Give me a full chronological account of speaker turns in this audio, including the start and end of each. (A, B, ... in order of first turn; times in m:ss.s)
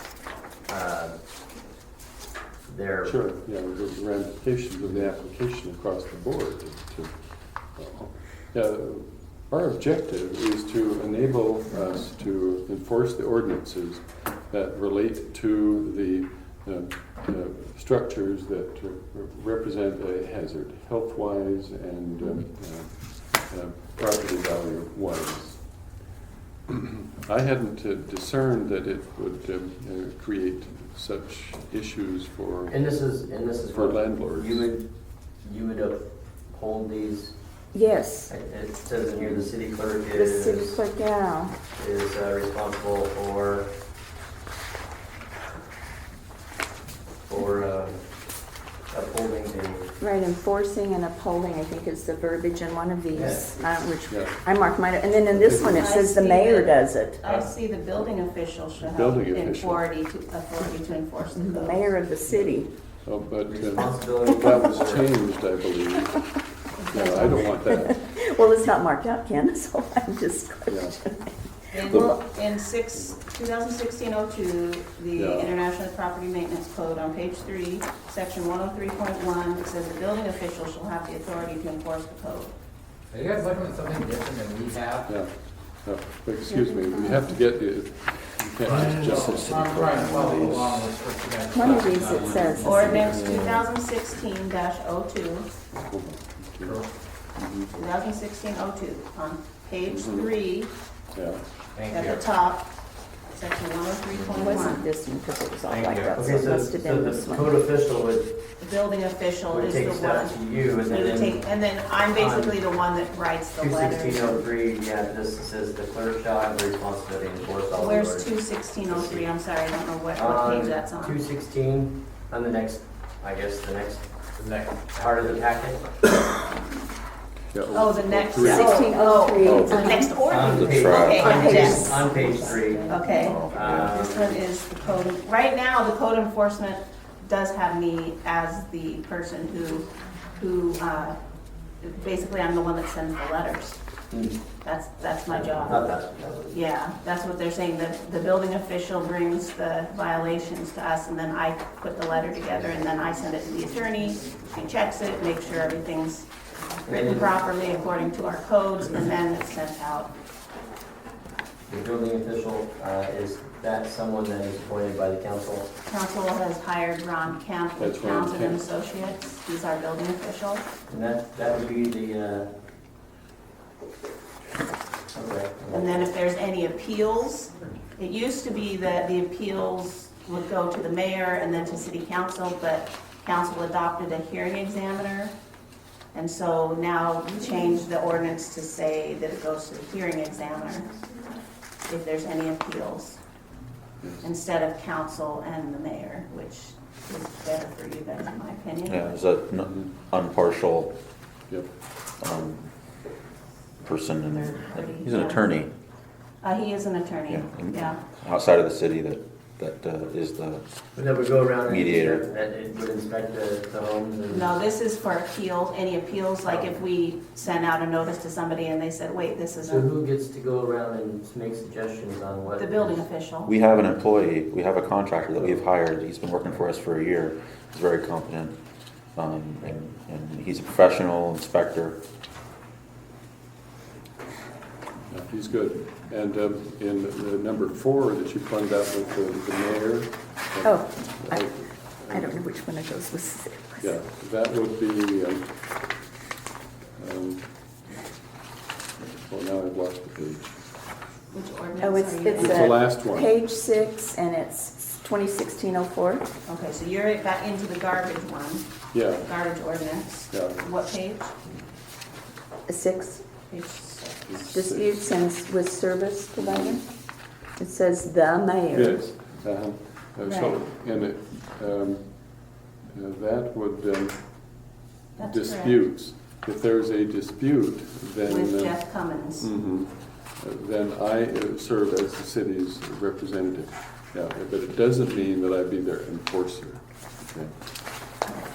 0:00.7-0:01.2 A
0:02.7-0:03.2 A
0:03.0-0:25.6 B
0:26.7-0:32.8 B
0:32.7-0:34.9 A
0:33.7-0:34.7 B
0:35.4-0:37.3 A
0:37.7-0:38.3 C
0:38.3-0:40.8 A
0:40.1-0:41.5 C
0:41.7-0:43.7 A
0:47.3-0:48.1 A
0:48.9-0:49.9 A
0:50.0-0:57.3 C
0:53.1-0:53.4 A
0:54.1-0:54.4 B
0:55.3-0:55.8 B
0:55.7-1:02.0 D
0:58.8-0:59.8 B
1:01.3-1:02.7 C
1:02.3-1:06.2 B
1:03.4-1:05.1 A
1:06.8-1:07.0 D
1:06.9-1:07.9 B
1:06.9-1:12.1 C
1:10.7-1:11.0 B
1:11.7-1:22.5 D
1:15.2-1:15.5 B
1:23.1-1:25.2 E
1:25.0-1:29.4 B
1:26.4-1:27.3 C
1:28.6-1:33.4 E
1:28.7-1:30.9 F
1:31.5-1:33.2 C
1:32.6-1:35.5 D
1:32.9-1:33.4 B
1:35.7-1:36.8 B
1:36.6-1:36.9 E
1:37.3-1:37.7 B
1:37.7-1:40.7 D
1:39.9-1:40.3 B
1:41.1-1:41.4 B
1:41.7-1:42.2 E
1:41.9-1:42.7 D
1:43.3-1:44.8 D
1:44.1-1:44.6 A
1:44.3-1:47.5 C
1:45.7-1:46.2 E
1:46.1-1:48.4 A
1:48.6-1:54.4 D
1:49.5-1:51.4 A
1:52.1-1:52.6 A
1:53.6-1:58.3 A
1:57.8-2:01.2 D
1:58.9-1:59.3 A
2:00.1-2:04.1 A
2:04.4-2:05.4 E
2:04.9-2:05.8 A
2:07.5-2:08.8 B
2:07.7-2:12.1 D
2:08.4-2:10.2 C
2:09.4-2:09.8 B
2:10.2-2:12.9 A
2:10.3-2:11.7 F
2:10.8-2:13.4 C
2:12.8-2:21.2 D
2:13.1-2:14.0 F
2:13.5-2:14.4 A
2:21.8-2:23.8 D
2:24.1-2:24.4 A
2:24.6-2:36.3 D
2:25.3-2:26.5 A
2:36.8-2:40.1 D
2:36.9-2:37.3 A
2:41.7-2:45.7 A
2:45.9-2:50.7 D
2:47.8-2:48.6 B
2:50.9-2:52.5 A
2:55.1-2:56.1 A
2:55.7-3:05.3 D
3:06.1-3:11.0 D
3:11.8-3:13.2 D
3:14.0-3:14.3 B
3:14.2-3:19.2 D
3:18.8-3:20.9 F
3:19.6-3:19.9 B
3:22.2-3:22.7 F
3:23.8-3:25.7 F
3:24.3-3:25.4 D
3:26.4-3:28.0 D
3:27.3-3:30.6 F
3:30.9-3:34.5 A
3:31.6-3:32.2 F
3:34.3-3:39.9 D
3:36.4-3:36.7 A
3:39.7-3:43.0 A
3:42.6-3:43.5 D
3:43.4-3:48.6 F
3:49.1-3:52.0 F
3:55.1-4:02.4 B
4:00.6-4:01.5 C
4:02.0-4:04.0 C
4:03.8-4:05.5 B
4:07.0-4:07.5 B
4:09.3-4:10.6 B
4:11.3-4:12.8 D
4:11.8-4:16.3 C
4:12.3-4:13.3 B
4:16.4-4:21.3 D
4:18.9-4:19.3 B
4:20.3-4:20.6 B
4:22.7-4:23.2 C
4:23.5-4:24.5 D
4:24.3-4:24.9 B
4:24.4-4:26.8 C
4:26.4-4:26.8 B
4:27.6-4:29.0 C
4:28.7-4:34.5 B
4:30.2-4:30.6 D
4:35.2-4:35.8 D
4:35.2-4:38.9 B
4:38.2-4:39.5 D
4:39.4-4:47.5 B